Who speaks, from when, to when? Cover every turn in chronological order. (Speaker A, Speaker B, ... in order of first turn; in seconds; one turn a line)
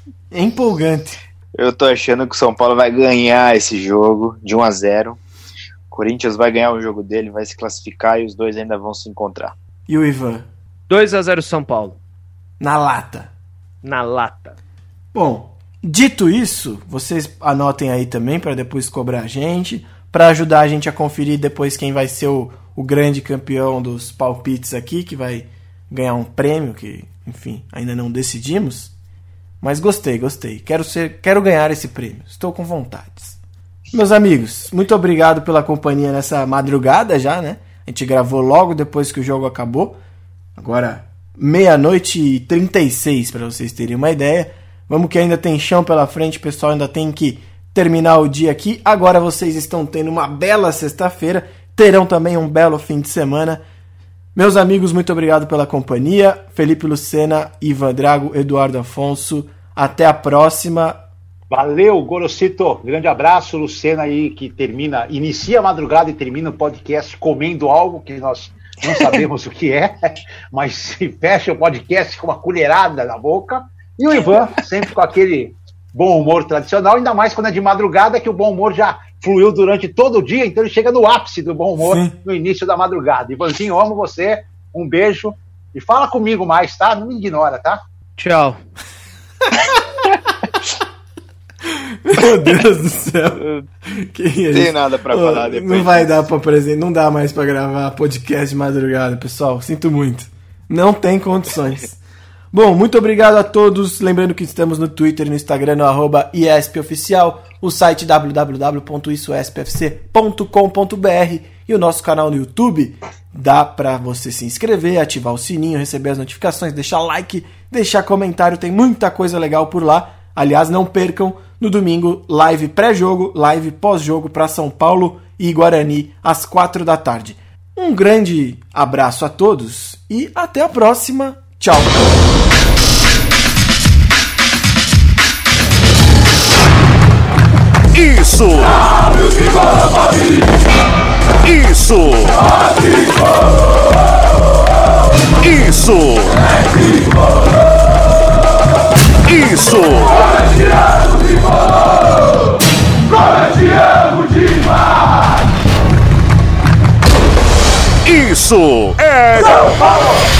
Speaker A: 0.3-1.2
Speaker B: 1.6-5.2
Speaker B: 5.9-9.5
Speaker A: 9.9-10.5
Speaker C: 10.9-12.0
Speaker A: 12.6-13.3
Speaker C: 13.8-14.6
Speaker A: 15.1-28.9
Speaker A: 29.6-33.4
Speaker A: 33.9-40.0
Speaker A: 40.5-53.6
Speaker A: 54.3-61.0
Speaker D: 61.5-69.9
Speaker D: 70.5-87.8
Speaker A: 81.8-82.1
Speaker C: 88.2-88.6
Speaker A: 91.6-102.0
Speaker B: 93.3-93.6
Speaker B: 94.5-96.3
Speaker A: 102.5-132.0
Speaker E: 137.9-138.9
Speaker E: 141.4-142.5
Speaker E: 145.4-146.5
Speaker E: 149.2-150.5
Speaker E: 158.0-159.9